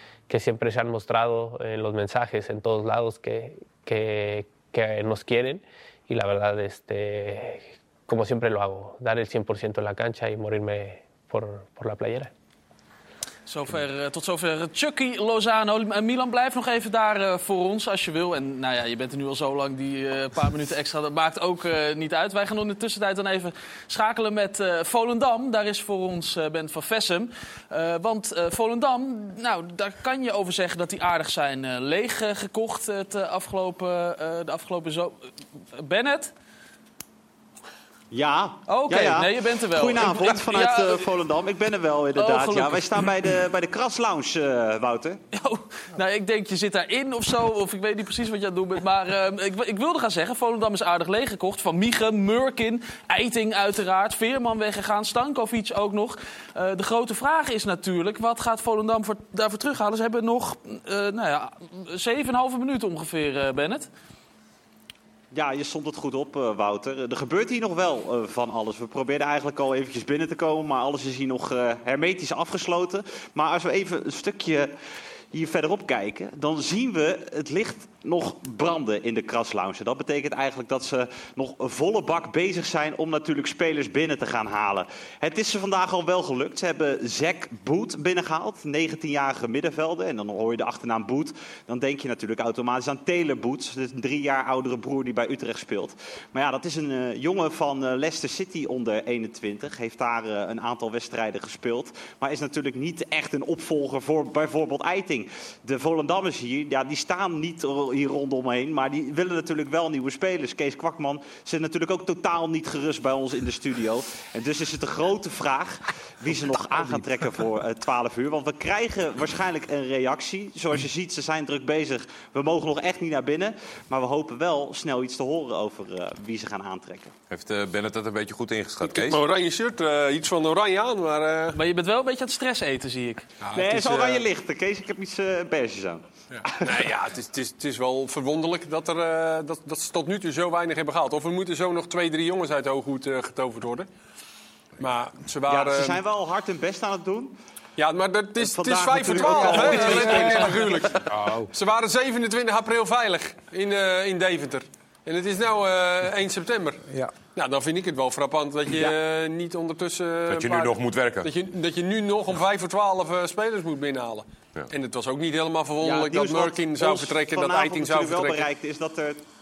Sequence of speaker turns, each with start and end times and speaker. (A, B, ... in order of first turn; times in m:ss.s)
0:00.3-0:12.3 A
0:13.5-0:35.2 B
0:35.8-0:36.3 B
0:38.1-0:45.2 C
0:38.7-0:41.1 B
0:42.2-0:43.1 B
0:45.3-1:03.9 B
1:05.3-1:14.7 C
1:15.3-2:07.1 C
2:07.3-2:09.2 D
2:08.8-2:11.6 E
2:11.6-2:13.3 B
2:13.4-2:14.3 E
2:13.5-2:16.9 C
2:16.3-2:23.9 E
2:24.8-2:26.0 E
2:25.5-2:27.3 C
2:27.8-2:36.8 E
2:28.4-2:30.8 C
2:31.1-2:31.4 D
2:37.4-2:48.5 E
2:40.3-2:41.3 D
2:45.8-2:49.2 C